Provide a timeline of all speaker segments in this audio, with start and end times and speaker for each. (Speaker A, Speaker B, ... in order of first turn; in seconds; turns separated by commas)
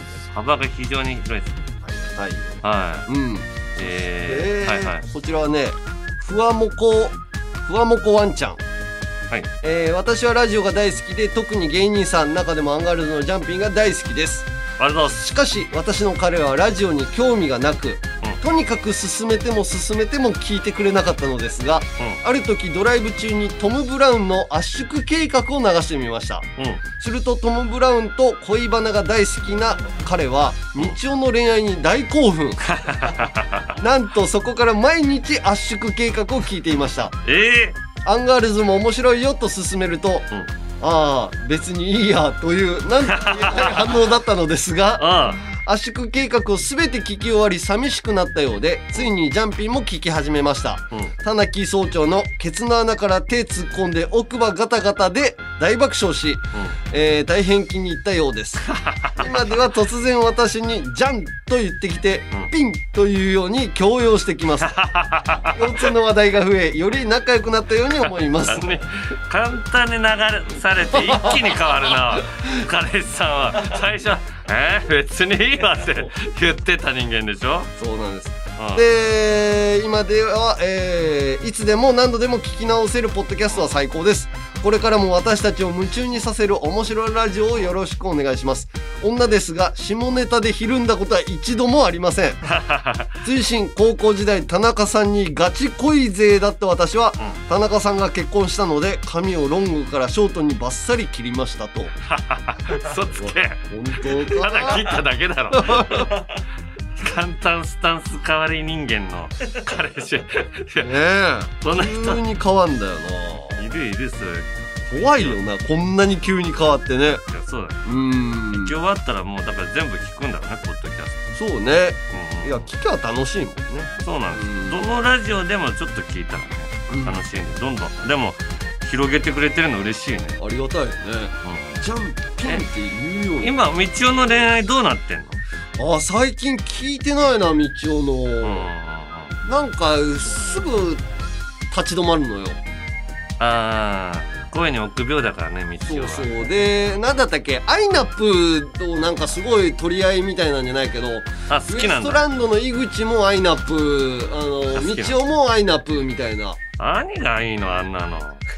Speaker A: 0.3-1.6, Speaker B: 1.8-3.7, Speaker A: 2.6-3.1, Speaker A: 3.8-5.0, Speaker B: 4.2-8.6, Speaker B: 9.6-14.5, Speaker A: 14.8-15.2, Speaker B: 15.1-26.5, Speaker A: 26.6-26.8, Speaker B: 27.0-32.6, Speaker A: 32.6-33.8, Speaker B: 33.8-37.1, Speaker A: 37.2-37.8, Speaker B: 38.0-40.3, Speaker B: 40.8-64.7, Speaker A: 43.1-44.0, Speaker A: 45.0-45.4, Speaker A: 56.5-56.8, Speaker A: 58.7-59.4, Speaker A: 64.6-65.8, Speaker B: 65.5-68.8, Speaker A: 68.5-77.7, Speaker B: 77.8-92.4, Speaker A: 78.5-78.8, Speaker A: 92.5-93.2, Speaker B: 93.2-101.9, Speaker A: 102.1-106.4, Speaker B: 103.1-105.0, Speaker B: 105.5-106.1, Speaker A: 107.0-110.9, Speaker B: 110.8-113.7, Speaker A: 111.6-112.2, Speaker A: 113.5-115.4, Speaker B: 114.9-117.2, Speaker A: 117.2-117.8, Speaker B: 117.8-118.8, Speaker A: 118.5-121.2, Speaker B: 121.3-124.8, Speaker A: 122.1-122.7, Speaker A: 124.0-130.4, Speaker B: 126.9-127.2, Speaker B: 130.4-133.5, Speaker A: 131.4-131.8, Speaker A: 133.4-135.4, Speaker B: 135.8-138.7, Speaker A: 138.4-139.3, Speaker B: 139.4-141.0, Speaker B: 141.7-142.6, Speaker A: 143.4-146.3, Speaker B: 145.8-156.6, Speaker A: 151.5-152.2, Speaker A: 154.7-155.2, Speaker A: 156.8-158.4